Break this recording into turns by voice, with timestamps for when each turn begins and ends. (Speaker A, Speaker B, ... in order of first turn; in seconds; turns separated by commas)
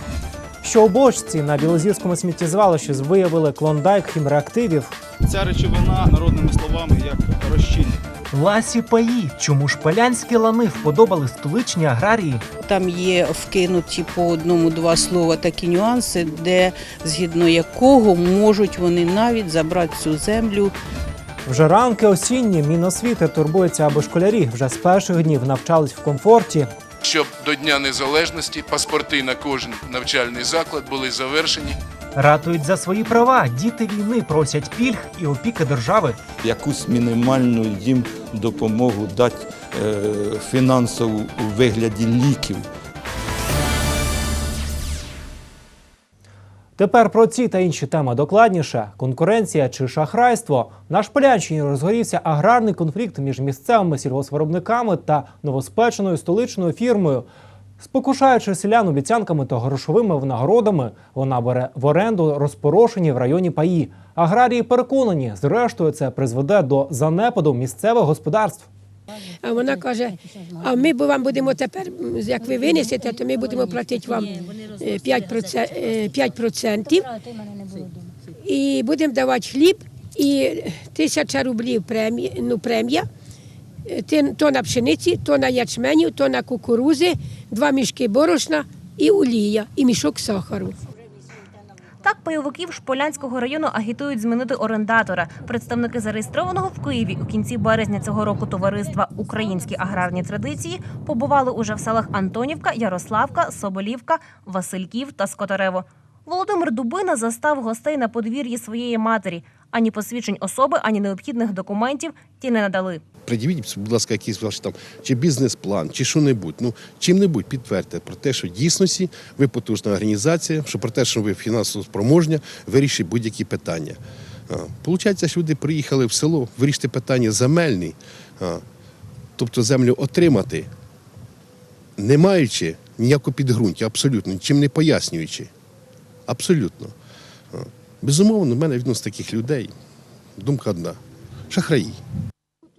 Speaker A: 0.6-4.9, Speaker B: 5.2-8.0, Speaker A: 8.3-12.4, Speaker C: 12.6-20.7, Speaker A: 21.5-26.7, Speaker D: 27.0-31.8, Speaker A: 32.2-36.2, Speaker E: 36.4-42.7, Speaker A: 46.8-57.3, Speaker A: 57.8-68.7, Speaker F: 69.4-77.2, Speaker F: 78.4-83.1, Speaker F: 83.9-90.8, Speaker G: 92.0-113.0, Speaker H: 113.2-124.0, Speaker H: 124.5-128.6, Speaker H: 129.4-130.7, Speaker H: 132.0-135.5, Speaker H: 136.3-136.9, Speaker H: 137.5-139.7, Speaker H: 140.4-141.0, Speaker H: 141.5-142.0